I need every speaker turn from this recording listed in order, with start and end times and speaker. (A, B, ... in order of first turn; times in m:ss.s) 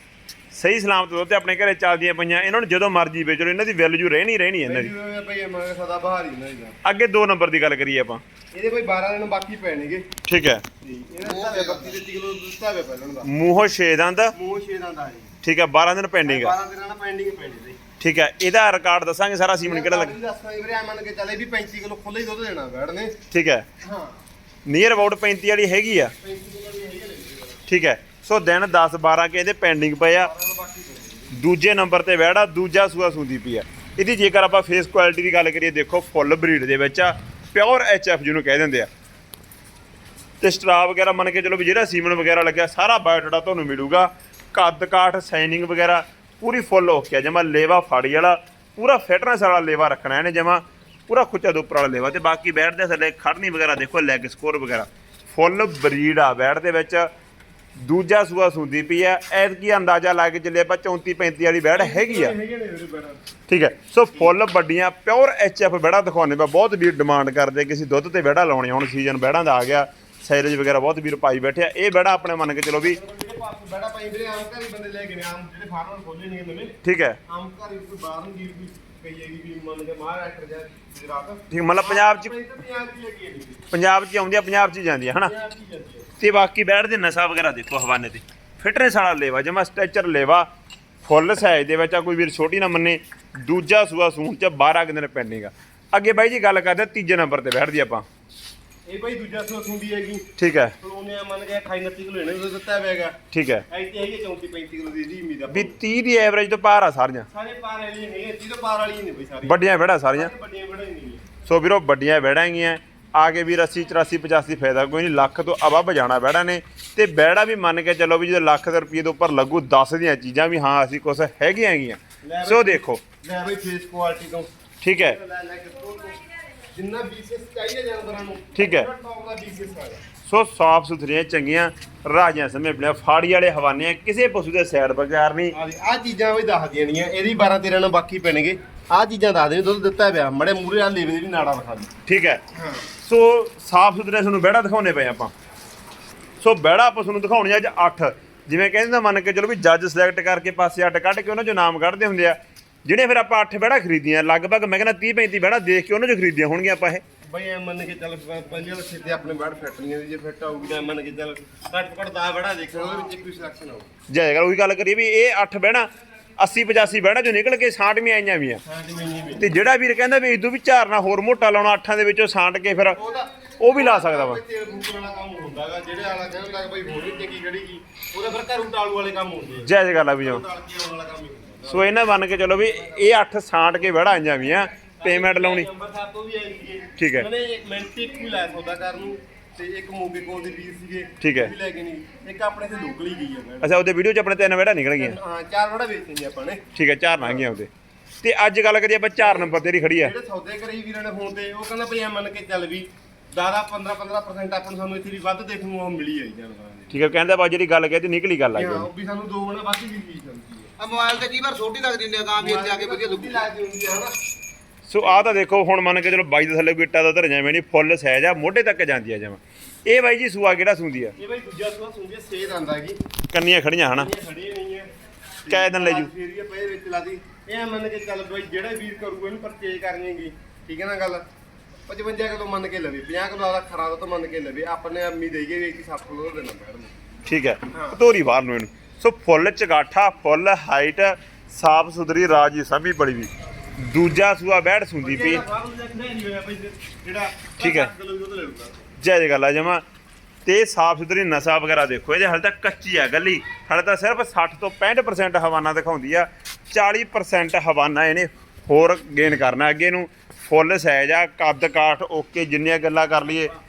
0:00.5-0:04.9 A
0:04.6-0:06.8 B
0:06.8-0:08.2 A
0:08.5-0:10.1 B
0:10.2-0:10.6 A
0:10.8-0:13.3 B
0:11.2-0:11.9 C
0:13.2-0:14.3 A
0:14.3-0:15.3 B
0:15.4-0:16.5 A
0:16.2-0:17.8 B
0:18.0-0:20.1 A
0:19.6-0:23.2 B
0:23.3-0:23.6 A
0:23.8-0:24.2 B
0:24.6-0:26.1 A
0:26.2-0:27.6 B
0:27.7-0:30.3 A
0:30.1-0:31.3 B
0:31.3-0:38.9 A
0:40.4-0:57.1 A
0:57.8-1:02.3 A
1:01.7-1:03.2 B
1:03.5-1:13.0 A
1:12.8-1:23.7 B
1:16.8-1:17.2 A
1:21.5-1:22.3 A
1:23.7-1:25.3 A
1:25.2-1:26.1 B
1:26.2-1:30.5 A
1:31.0-1:38.0 A
1:38.8-1:40.3 B
1:40.4-1:40.7 A
1:40.8-1:43.2 B
1:43.3-1:43.6 A
1:43.7-1:45.8 B
1:45.5-1:47.3 A
1:47.3-1:51.3 B
1:49.4-1:50.3 A
1:51.4-2:03.0 A
2:02.2-2:06.2 B
2:04.8-2:05.2 A
2:06.7-2:10.0 B
2:08.5-2:08.9 A
2:10.2-2:15.5 A
2:15.5-2:21.9 B
2:22.0-2:22.4 A
2:22.5-2:22.9 B
2:23.0-2:25.3 A
2:26.4-2:37.0 A
2:37.2-2:43.9 B
2:44.1-2:45.9 A
2:46.4-2:48.6 A
2:48.6-2:49.5 B
2:49.4-2:53.0 A
2:52.9-3:01.9 B
2:53.6-2:54.4 A
2:59.6-3:00.4 A
3:01.7-3:05.7 A
3:05.0-3:13.8 B
3:07.0-3:07.3 A
3:11.2-3:11.5 A
3:13.6-3:15.2 A
3:15.0-3:16.6 B
3:16.7-3:17.7 A
3:17.2-3:17.5 B
3:18.2-3:20.1 A
3:19.2-3:27.0 B
3:26.9-3:28.9 A
3:28.5-3:30.7 B
3:30.8-3:33.4 C
3:32.4-3:34.2 B
3:34.8-3:41.1 A
3:35.0-3:35.4 B
3:41.2-3:43.0 B
3:43.3-3:44.1 A
3:43.9-3:44.9 B
3:45.4-3:51.2 B
3:45.5-3:46.1 A
3:51.9-3:56.9 B
3:57.3-4:05.4 A
3:57.7-3:58.0 B
4:05.0-4:08.8 B
4:07.6-4:07.9 A
4:09.0-4:09.8 A
4:10.4-4:23.5 A